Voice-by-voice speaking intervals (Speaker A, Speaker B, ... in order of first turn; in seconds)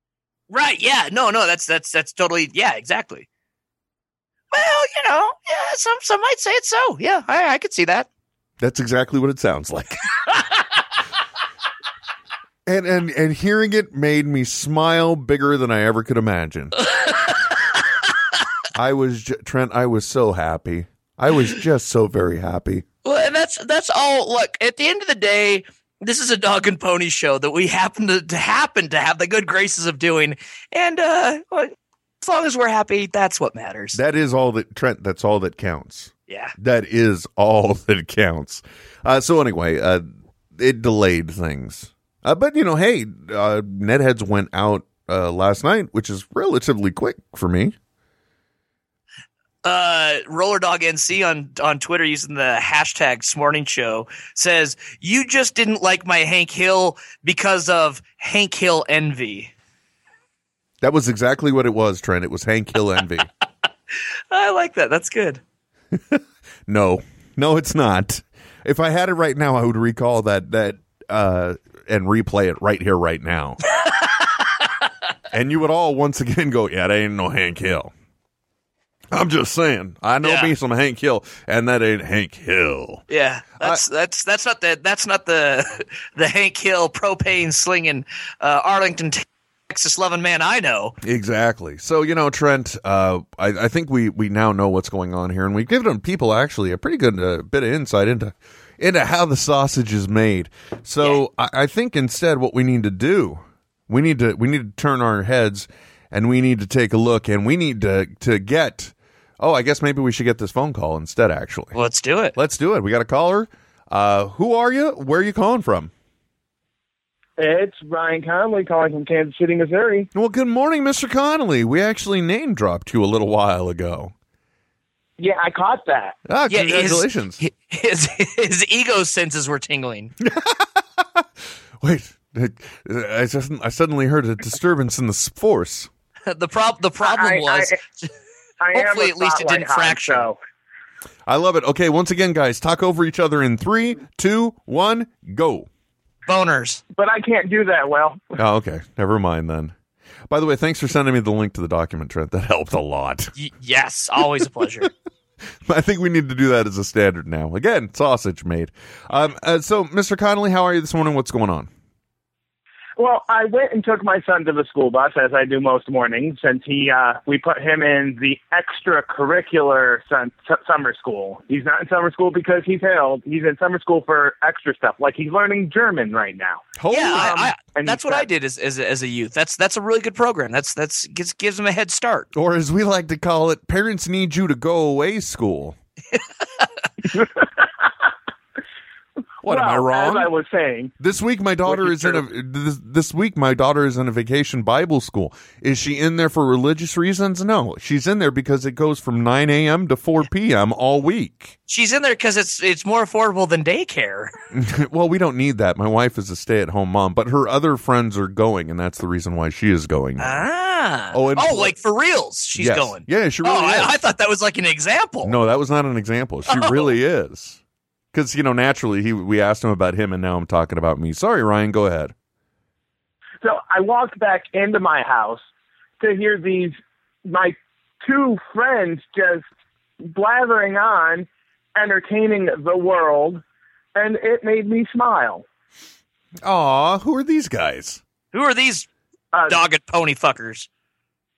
Speaker A: 0.5-3.2, 4.5-8.1, 16.8-17.6, 23.0-34.0, 36.3-36.5, 49.6-59.5, 64.3-65.4, 73.8-74.7, 80.2-80.5, 83.1-91.0, 111.7-112.3, 126.5-130.1, 136.3-138.1, 138.7-140.3, 146.3-146.8, 153.3-154.9, 176.9-182.3, 201.7-204.3, 210.2-215.3, 216.5-216.9, 238.3-238.9, 239.5-240.7
Speaker B: 8.6-10.0, 12.7-16.8, 18.7-22.8, 33.9-40.0, 40.5-47.7, 60.8-63.3, 65.9-73.6, 75.3-77.9, 79.1-83.0, 91.0-111.7, 112.3-115.9, 120.1-124.1, 126.3-127.4, 130.2-131.2, 131.8-135.9, 141.2-145.7, 148.4-149.7, 150.3-153.3, 155.6-161.7, 176.8-177.4, 182.3-185.8, 189.4-190.3, 191.0-201.5, 204.5-210.4, 211.1-211.7, 212.6-214.0, 215.2-217.6, 218.1-222.1, 236.4-238.0
Speaker C: 117.4-120.1, 125.2-126.2, 137.0-137.8, 138.6-140.4, 146.9-148.3, 163.0-178.2, 187.1-187.7, 189.4-190.9, 191.7-192.2, 223.4-225.4, 226.0-229.4, 230.0-233.4, 233.9-235.4, 239.3-239.6